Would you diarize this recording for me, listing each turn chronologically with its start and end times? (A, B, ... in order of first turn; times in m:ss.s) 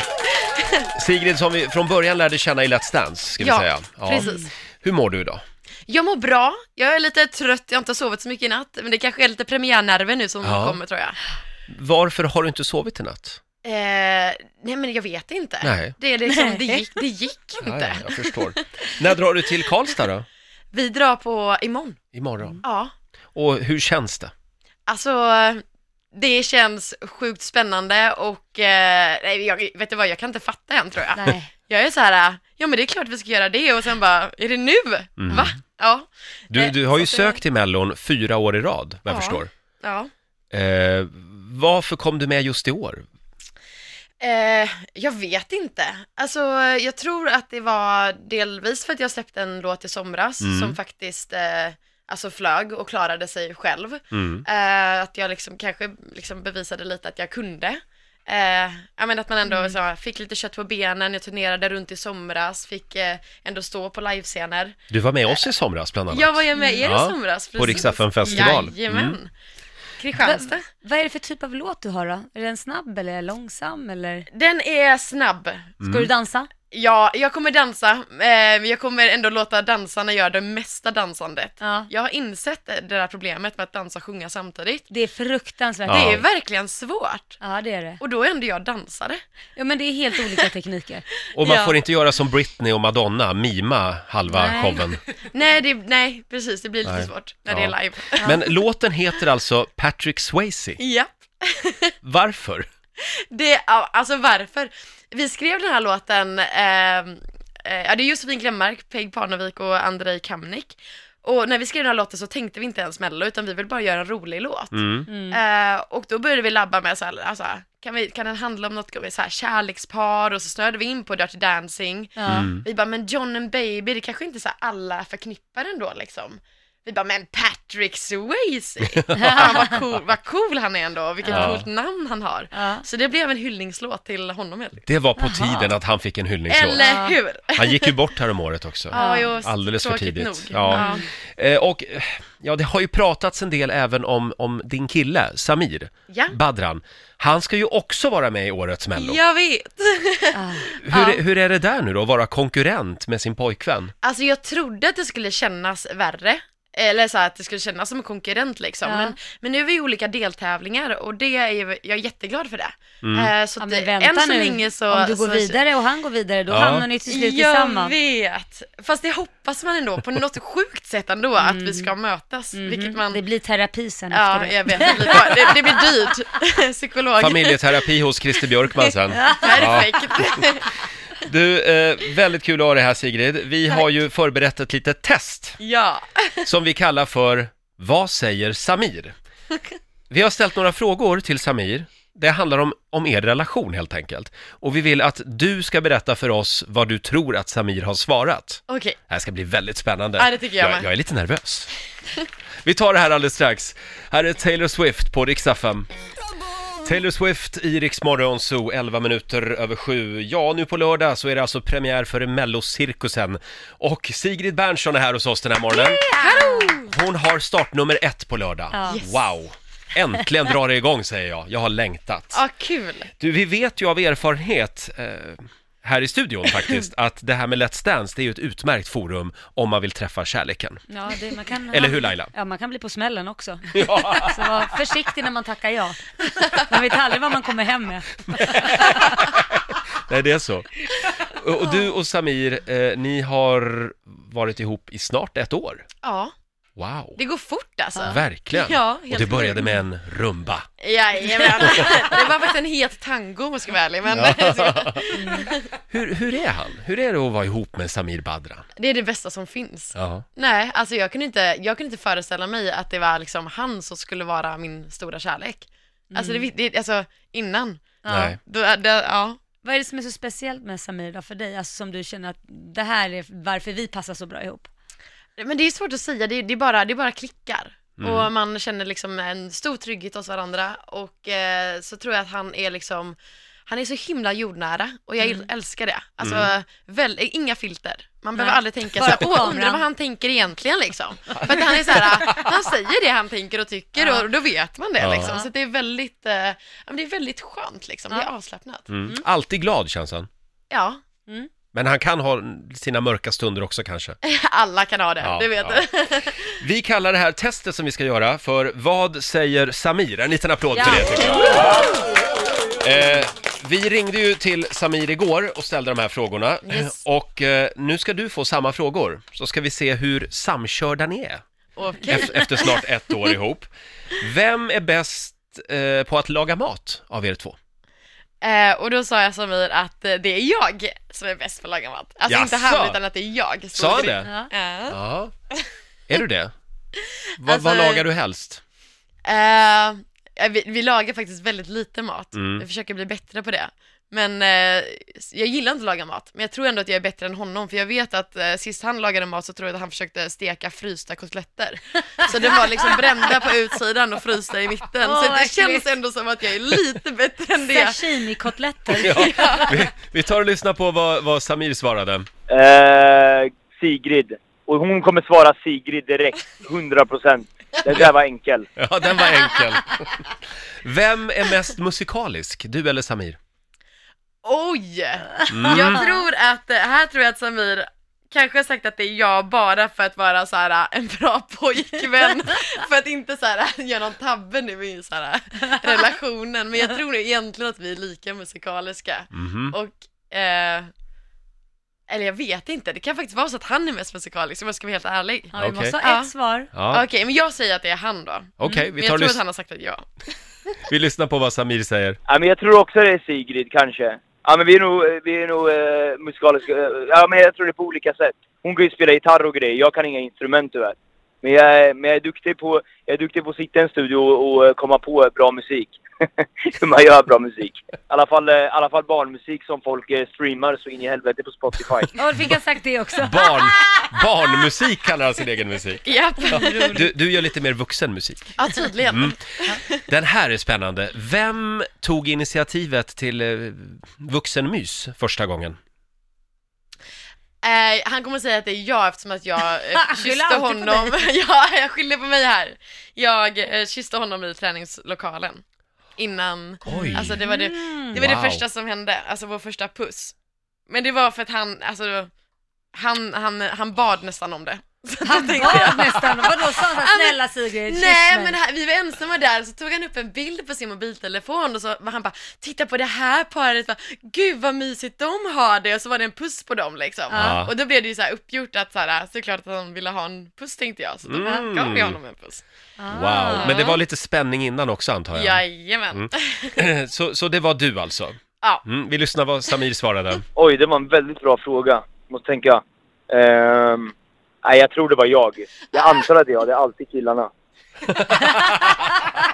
0:00.4-0:00.9 A
0:01.0-0:05.4 B
0:03.4-0:04.5 A
0:04.2-0:04.5 C
0:05.9-0:11.2 A
0:10.4-0:10.8 B
0:11.7-0:13.4 B
0:13.6-0:18.7 A
0:15.6-0:15.9 B
0:16.3-0:16.9 C
0:17.6-0:20.3 B
0:20.7-0:22.0 A
0:22.1-0:22.6 B
0:22.6-0:22.9 A
0:23.4-0:24.3 B
0:24.9-0:25.6 A
0:26.1-0:37.4 A
0:31.2-0:31.5 C
0:35.2-0:35.5 B
0:36.5-0:39.5 B
0:39.1-0:40.1 A
0:40.5-0:43.1 B
0:44.2-1:04.8 A
0:50.4-0:50.8 B
0:54.1-0:54.4 B
0:59.4-0:59.8 C
1:04.9-1:09.2 B
1:06.1-1:09.3 A
1:06.6-1:06.8 C
1:08.2-1:08.6 C
1:10.0-1:10.7 A
1:10.2-1:14.3 C
1:14.3-1:15.8 A
1:15.8-1:16.1 B
1:15.8-1:16.5 C
1:16.7-1:24.9 A
1:21.6-1:21.9 C
1:24.9-1:26.2 C
1:25.9-1:26.2 B
1:25.9-1:27.4 A
1:27.4-1:28.0 C
1:28.0-1:29.2 A
1:29.6-1:31.1 C
1:31.4-1:35.0 B
1:31.4-1:31.8 A
1:34.3-1:34.9 C
1:35.3-1:38.4 A
1:36.8-1:40.8 B
1:40.8-1:42.0 A
1:42.0-1:42.7 B
1:43.0-2:14.9 A
1:54.7-1:55.1 B
1:55.1-1:55.4 C
2:02.2-2:02.5 C
2:02.3-2:02.6 B
2:09.0-2:09.4 B
2:09.2-2:09.8 C
2:11.2-2:11.6 C
2:11.3-2:11.6 B
2:12.5-2:12.8 C
2:14.9-2:16.8 B
2:15.2-2:15.7 C
2:16.5-2:17.9 A
2:16.7-2:17.2 C
2:17.6-2:29.2 B
2:18.9-2:21.0 A
2:18.9-2:19.3 C
2:20.7-2:21.1 C
2:26.1-2:26.4 A
2:29.0-2:31.2 A
2:30.3-2:30.7 C
2:30.8-2:33.9 B
2:34.0-2:45.6 A
2:38.8-2:39.2 C
2:43.0-2:43.3 B
2:43.6-2:48.0 C
2:46.5-2:46.9 B
2:46.6-2:53.2 A
2:51.4-2:51.9 C
2:52.5-2:55.8 C
2:54.1-2:57.6 A
2:57.2-3:00.5 B
2:59.1-3:00.3 C
2:59.4-3:00.7 A
3:01.2-3:05.6 B
3:05.6-3:06.4 A
3:06.4-3:09.2 B
3:10.1-3:21.7 B
3:18.7-3:19.0 A
3:20.2-3:20.9 A
3:22.6-3:25.9 B
3:26.8-3:36.1 B
3:35.7-3:36.9 A
3:36.2-3:36.4 C
3:36.8-3:42.4 B
3:38.7-3:39.0 C
3:38.8-3:39.2 A
3:42.3-3:43.1 A
3:43.2-3:50.8 B
3:50.9-3:59.2 C
3:51.7-3:52.3 B
3:53.7-3:54.8 B
3:58.3-4:05.8 B
4:06.0-4:06.3 A
4:06.8-4:07.2 B
4:07.2-4:09.7 A
4:08.0-4:10.7 B
4:10.8-4:15.6 A
4:14.1-4:15.0 B
4:15.1-4:15.5 C
4:15.9-4:18.7 B
4:18.8-4:27.8 A
4:20.0-4:20.2 B
4:26.1-4:26.5 C
4:28.0-4:28.4 C
4:28.1-4:28.4 B
4:28.4-4:29.4 A
4:29.6-4:34.7 C
4:35.4-4:43.2 A
4:38.0-4:38.3 B
4:43.7-4:58.9 A
4:45.2-4:45.5 C
4:46.2-4:46.5 B
4:48.4-4:49.8 C
4:54.0-4:54.3 C
4:55.0-4:55.3 B
4:55.2-4:55.5 C
4:58.9-5:00.3 B
5:00.7-5:01.0 A
5:01.7-5:04.2 B
5:04.2-5:06.6 A
5:05.2-5:05.8 B
5:06.5-5:11.8 B
5:10.8-5:11.8 C
5:12.8-5:21.4 B
5:16.7-5:17.0 A
5:21.8-5:22.8 A
5:22.1-5:27.6 B
5:28.4-5:35.0 A
5:32.3-5:33.0 B
5:33.7-5:34.3 B
5:34.2-5:34.5 C
5:34.9-5:35.3 B
5:36.1-5:36.5 B
5:37.4-5:38.6 B
5:37.4-5:38.0 A
5:39.2-5:58.0 A
5:42.4-5:42.6 B
5:55.0-5:55.9 C
5:57.7-5:59.7 C
5:58.9-5:59.8 A
5:59.0-6:02.3 B
6:02.5-6:08.7 D
6:08.8-6:10.3 B
6:10.8-6:13.4 B
6:14.4-6:30.9 A
6:15.5-6:16.0 B
6:15.7-6:16.2 C
6:29.3-6:29.8 B
6:32.1-6:36.3 A
6:35.5-6:36.7 C
6:35.6-6:36.0 B
6:36.7-6:37.0 B
6:36.9-6:40.1 A
6:38.6-6:39.4 B
6:40.9-6:42.2 B
6:42.3-7:02.1 D
7:02.2-7:03.7 C
7:03.2-7:08.6 B
7:06.0-7:07.0 A
7:06.4-7:07.1 C
7:08.6-7:10.0 A
7:09.1-7:09.3 B
7:10.1-7:15.8 B
7:17.6-7:25.6 A
7:19.9-7:21.2 C
7:26.2-7:30.4 A
7:26.9-7:28.2 C
7:26.9-7:27.4 B
7:28.2-7:28.6 B
7:30.9-7:32.3 A
7:33.0-7:52.6 A
7:35.2-7:38.6 C
7:47.3-7:47.6 C
7:47.3-7:47.7 B
7:51.3-7:52.2 B
7:53.0-7:54.0 C
7:53.1-7:55.6 B
7:53.6-7:53.9 A
7:55.3-7:56.8 A
7:56.2-8:00.4 B
8:00.6-8:07.5 D
8:08.1-8:09.1 B